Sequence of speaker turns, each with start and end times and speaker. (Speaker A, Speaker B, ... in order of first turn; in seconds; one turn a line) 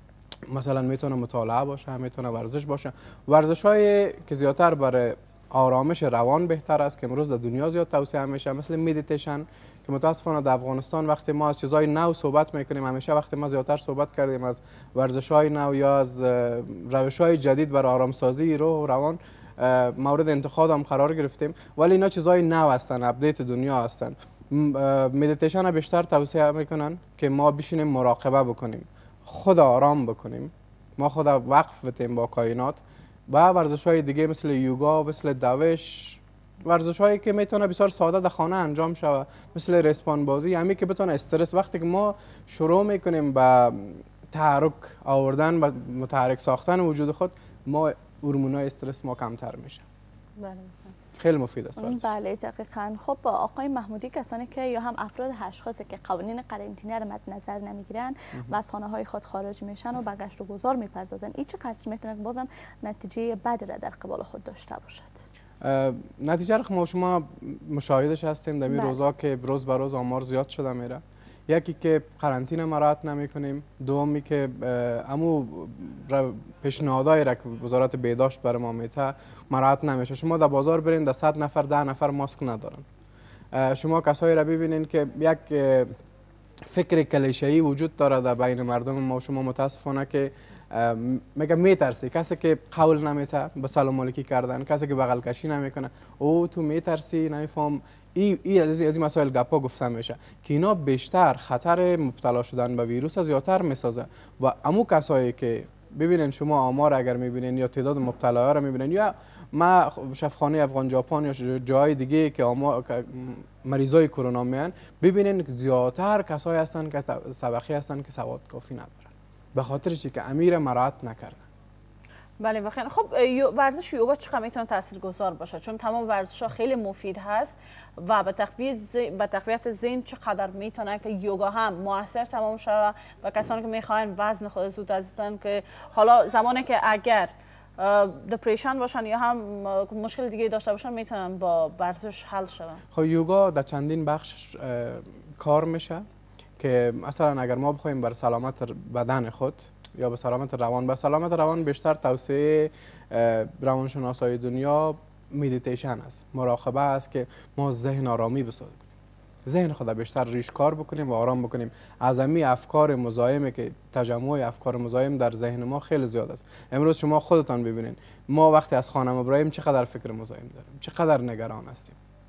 Speaker A: 0.5-49.8
Speaker B: 50.4-50.9
Speaker A: 51.2-52.1
Speaker C: 51.8-65.2
Speaker A: 65.6-82.8
Speaker C: 68.7-69.0
Speaker A: 83.5-85.9
Speaker A: 86.7-121.4
Speaker B: 122.4-142.8
Speaker A: 142.9-146.0
Speaker A: 146.6-158.9
Speaker A: 159.4-172.0